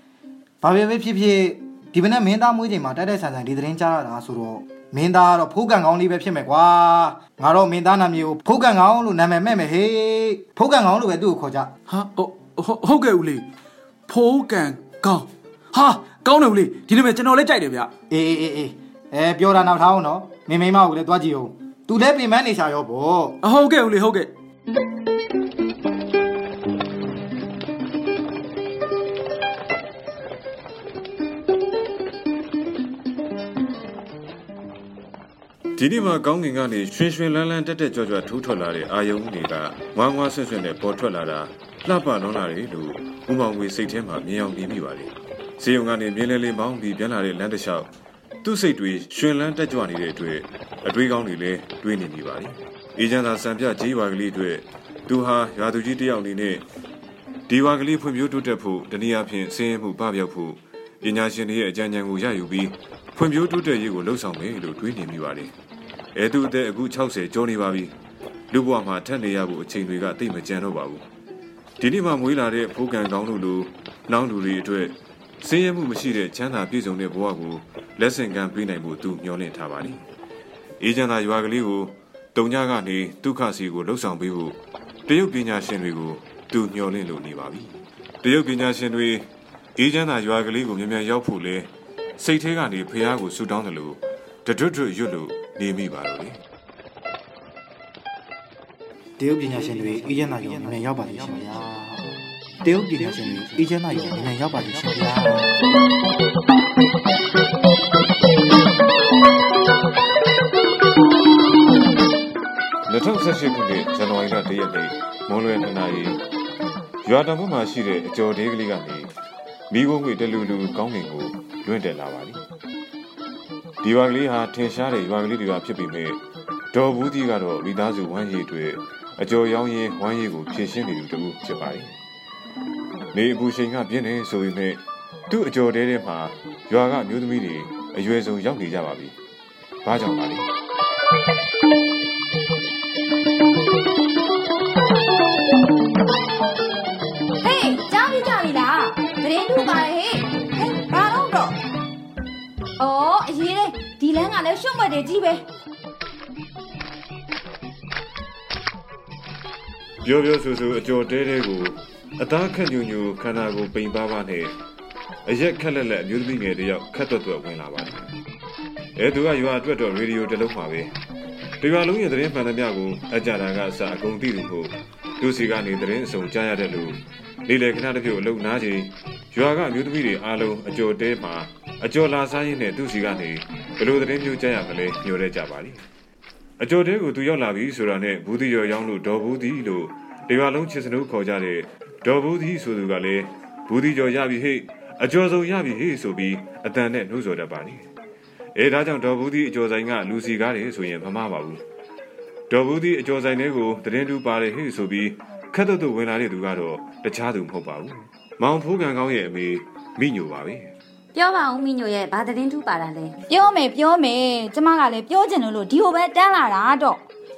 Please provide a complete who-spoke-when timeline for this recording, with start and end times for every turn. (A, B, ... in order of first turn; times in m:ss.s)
0:00.6-0:11.7 A
0:11.9-0:13.4 B
0:14.1-0:17.9 B
0:18.1-0:23.4 A
0:23.4-0:24.3 B
0:35.8-0:47.9 C
0:48.4-0:56.6 C
0:57.5-1:05.5 C
1:06.1-1:07.9 C
1:08.5-1:11.0 C
1:11.8-1:20.0 C
1:20.8-1:36.4 C
1:39.2-1:45.5 A
1:52.9-1:56.2 C
1:57.0-1:59.1 C
1:59.7-2:02.4 C
2:03.8-2:06.2 C
2:06.7-2:11.9 C
2:13.1-2:19.2 C
2:19.8-2:20.5 C
2:27.4-2:31.6 D
2:32.8-2:35.5 D
2:40.0-2:44.5 C
2:45.2-2:48.1 C
2:49.0-2:50.9 C
2:51.6-3:05.8 C
3:06.6-3:17.9 C
3:18.5-3:21.6 C
3:22.5-3:30.7 C
3:31.1-3:33.1 E
3:33.3-3:37.0 D